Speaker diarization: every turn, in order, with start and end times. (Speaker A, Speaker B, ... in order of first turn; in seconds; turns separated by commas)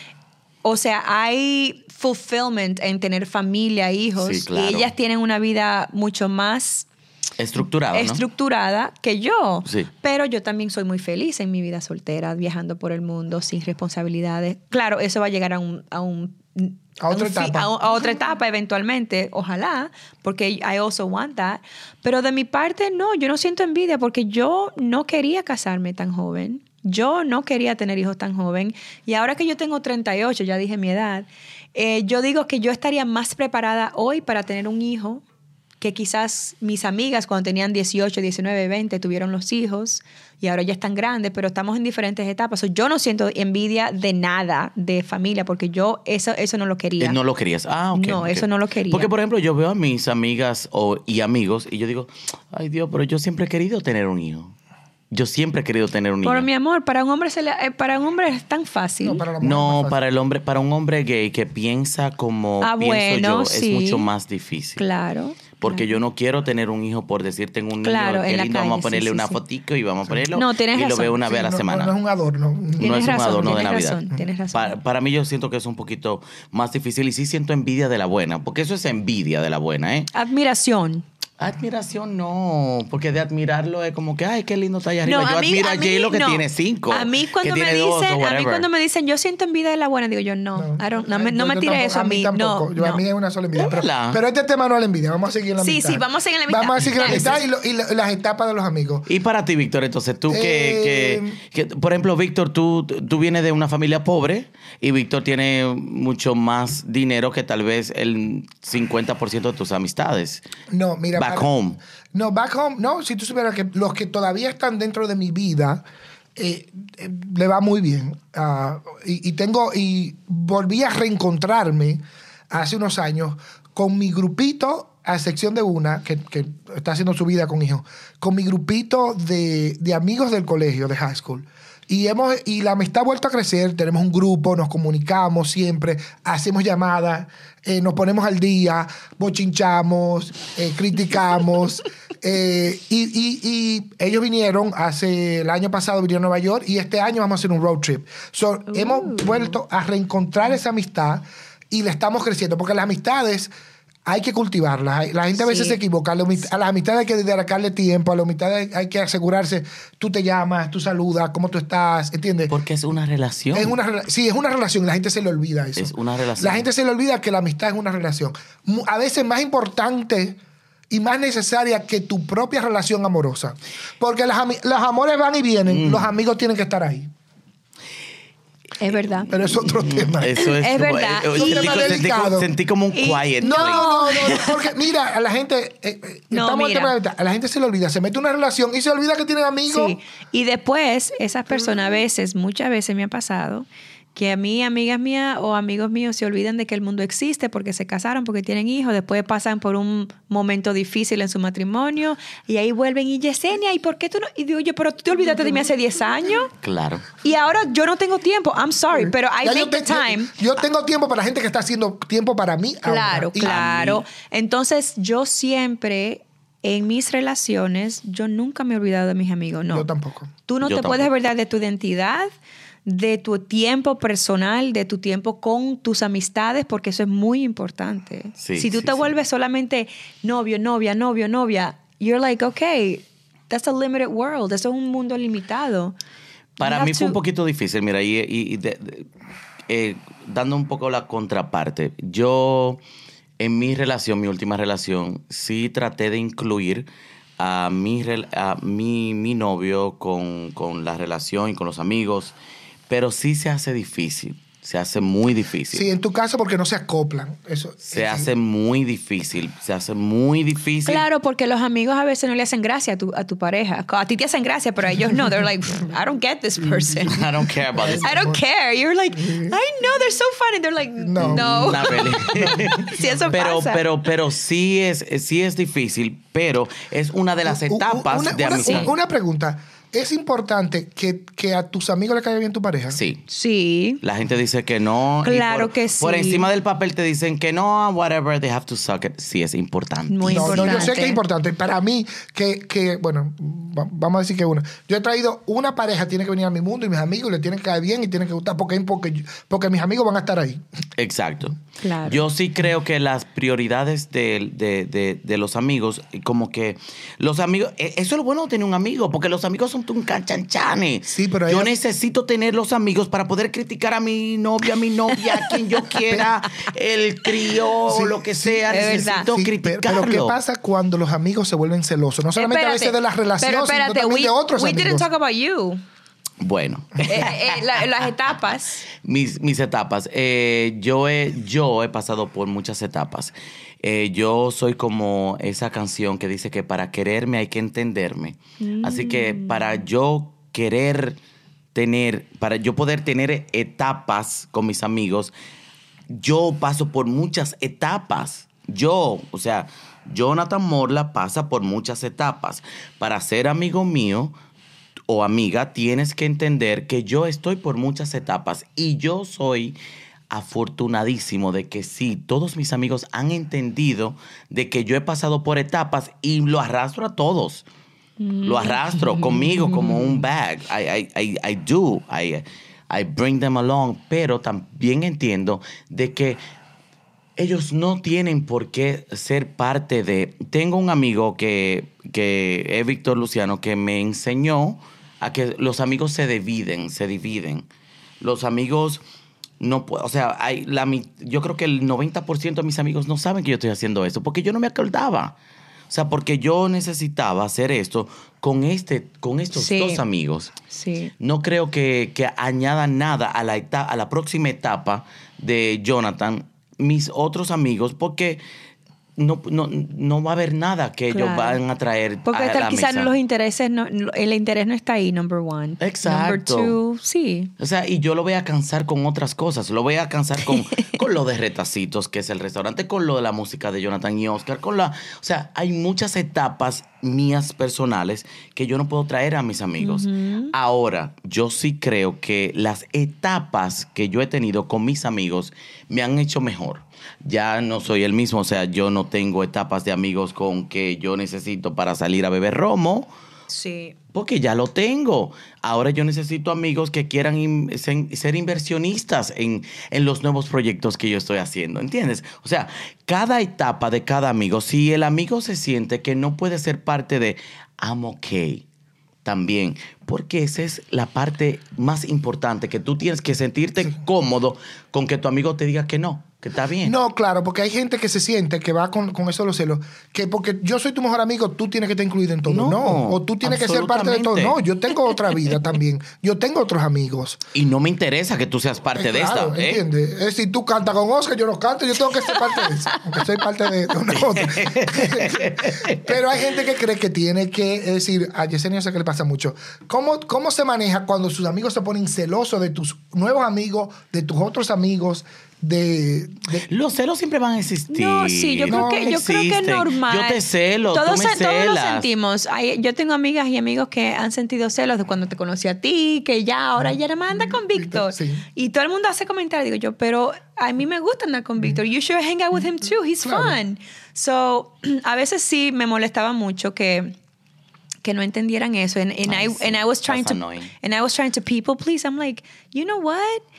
Speaker A: 0.6-6.9, Speaker B: 4.2-4.9, Speaker B: 7.4-8.2, Speaker A: 7.9-35.2, Speaker C: 17.0-17.7, Speaker A: 35.8-47.2, Speaker B: 47.0-54.5, Speaker A: 47.9-49.1, Speaker B: 55.1-56.5, Speaker A: 56.2-59.2, Speaker C: 59.0-60.0, Speaker B: 59.4-64.8, Speaker A: 62.6-64.1, Speaker A: 64.8-66.0, Speaker B: 65.6-71.9, Speaker A: 67.8-69.4, Speaker A: 70.3-71.2, Speaker C: 71.2-73.6, Speaker A: 72.8-74.8, Speaker B: 72.8-80.1, Speaker A: 80.1-81.0, Speaker B: 81.4-88.7, Speaker A: 85.0-93.0, Speaker C: 90.6-99.1, Speaker B: 93.5-94.2, Speaker A: 95.6-97.4, Speaker B: 99.1-110.4, Speaker C: 100.3-101.4, Speaker C: 110.7-111.5, Speaker B: 111.2-111.8, Speaker C: 112.1-115.8, Speaker C: 116.4-153.5, Speaker A: 148.7-149.5, Speaker C: 154.1-162.6, Speaker A: 155.4-155.8, Speaker B: 162.5-163.8, Speaker C: 163.5-170.4, Speaker B: 165.8-166.7, Speaker C: 170.9-177.1, Speaker B: 175.7-176.1, Speaker A: 178.8-179.3, Speaker C: 179.3-180.5, Speaker B: 179.6-183.9, Speaker A: 180.3-182.0, Speaker C: 181.3-182.5, Speaker A: 182.9-184.6, Speaker C: 183.4-190.0, Speaker A: 186.3-186.9, Speaker A: 189.7-206.5, Speaker B: 206.6-207.1, Speaker A: 207.2-210.4, Speaker C: 208.9-213.6, Speaker A: 212.9-219.9, Speaker B: 213.4-214.0, Speaker C: 219.7-220.3, Speaker A: 220.5-222.3, Speaker B: 220.6-221.1, Speaker A: 222.8-236.0, Speaker B: 228.4-229.1, Speaker B: 236.6-239.1, Speaker A: 236.6-237.2, Speaker B: 239.7-242.8, Speaker B: 243.4-246.9, Speaker B: 247.4-252.3, Speaker B: 252.9-255.8, Speaker C: 255.7-258.3, Speaker B: 257.9-261.0, Speaker A: 260.9-267.2, Speaker B: 267.1-268.2, Speaker C: 267.8-268.4, Speaker A: 268.0-273.8, Speaker C: 269.2-269.6, Speaker C: 271.0-272.7, Speaker B: 271.2-278.9, Speaker C: 277.5-283.0, Speaker A: 278.5-278.9, Speaker B: 282.9-283.2, Speaker A: 283.3-284.0, Speaker B: 284.0-290.9, Speaker A: 285.2-286.5, Speaker A: 290.1-291.2, Speaker C: 290.3-300.6, Speaker B: 301.0-320.4, Speaker A: 301.8-302.2, Speaker C: 311.1-311.8, Speaker A: 315.2-315.6, Speaker C: 317.9-325.1, Speaker A: 318.7-319.3, Speaker A: 322.4-325.8, Speaker B: 326.4-327.6, Speaker A: 327.1-328.8, Speaker B: 329.0-341.2, Speaker A: 338.6-339.7, Speaker B: 341.7-345.3, Speaker B: 346.1-354.3, Speaker B: 355.1-359.8, Speaker B: 360.3-367.6, Speaker A: 368.2-369.7, Speaker B: 368.4-376.4, Speaker B: 377.4-387.7, Speaker B: 388.2-389.0, Speaker B: 389.6-395.4, Speaker B: 395.9-400.5, Speaker A: 399.6-400.0, Speaker A: 400.7-401.1, Speaker B: 401.2-408.4, Speaker B: 409.2-413.1, Speaker A: 411.1-411.6, Speaker A: 412.3-417.5, Speaker B: 415.8-416.8, Speaker B: 417.6-443.1, Speaker A: 429.8-430.5, Speaker A: 443.5-443.9, Speaker B: 444.1-458.6, Speaker B: 459.2-467.0, Speaker C: 466.8-477.4, Speaker B: 472.5-474.6, Speaker B: 477.5-479.8, Speaker C: 478.9-496.7, Speaker B: 484.3-486.1, Speaker B: 496.6-502.1, Speaker A: 497.9-500.4, Speaker C: 498.7-499.1, Speaker A: 500.9-517.1, Speaker C: 507.3-508.4, Speaker C: 513.2-513.6, Speaker A: 518.0-523.4, Speaker B: 519.3-520.7